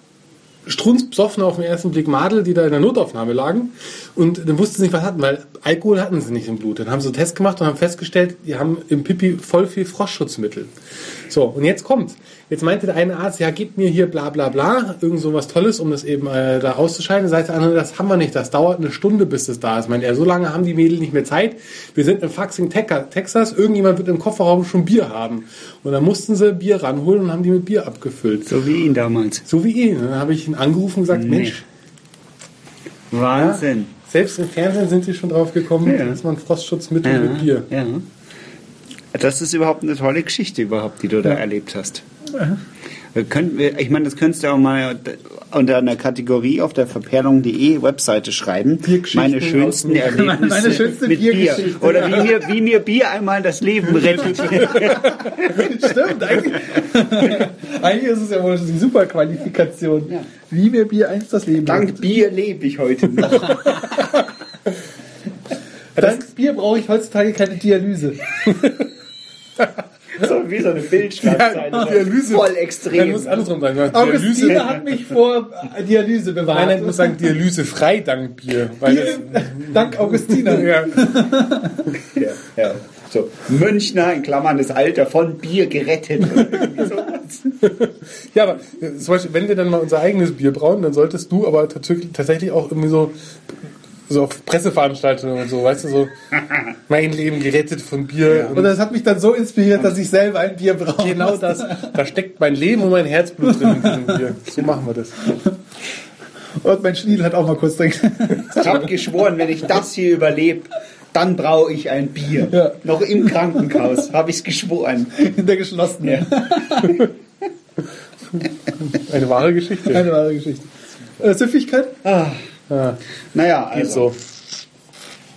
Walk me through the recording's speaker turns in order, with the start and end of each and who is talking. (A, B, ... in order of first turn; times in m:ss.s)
0:00.7-0:10.7 A
0:11.3-0:28.5 A
0:28.5-0:29.4 B
0:29.4-0:31.6 A
0:31.1-0:31.6 B
0:33.1-0:33.9 B
0:33.3-0:37.7 A
0:35.8-0:36.2 B
0:37.0-0:38.0 B
0:39.1-0:42.0 B
0:42.3-0:42.6 C
0:43.1-0:55.7 B
0:48.8-0:52.5 C
0:49.6-0:50.1 A
0:55.3-1:02.0 C
1:01.6-1:03.7 B
1:03.4-1:04.2 A
1:05.9-1:06.2 A
1:06.0-1:08.2 C
1:10.1-1:13.5 B
1:11.2-1:14.8 A
1:13.9-1:17.2 C
1:14.5-1:14.7 B
1:16.5-1:21.6 A
1:18.8-1:21.7 C
1:22.1-1:27.5 B
1:27.6-1:33.1 A
1:34.1-1:36.1 A
1:36.9-1:38.7 A
1:38.2-1:38.6 B
1:38.5-1:42.0 C
1:41.0-1:45.4 A
1:43.5-1:44.1 C
1:46.6-1:48.8 C
1:48.5-1:55.2 B
1:52.4-1:53.8 C
1:55.2-1:57.1 C
1:56.0-1:56.8 B
1:58.7-2:00.1 A
1:59.8-2:00.7 C
2:01.2-2:02.0 C
2:02.0-2:02.4 B
2:02.7-2:03.0 A
2:03.3-2:04.1 B
2:03.7-2:04.2 A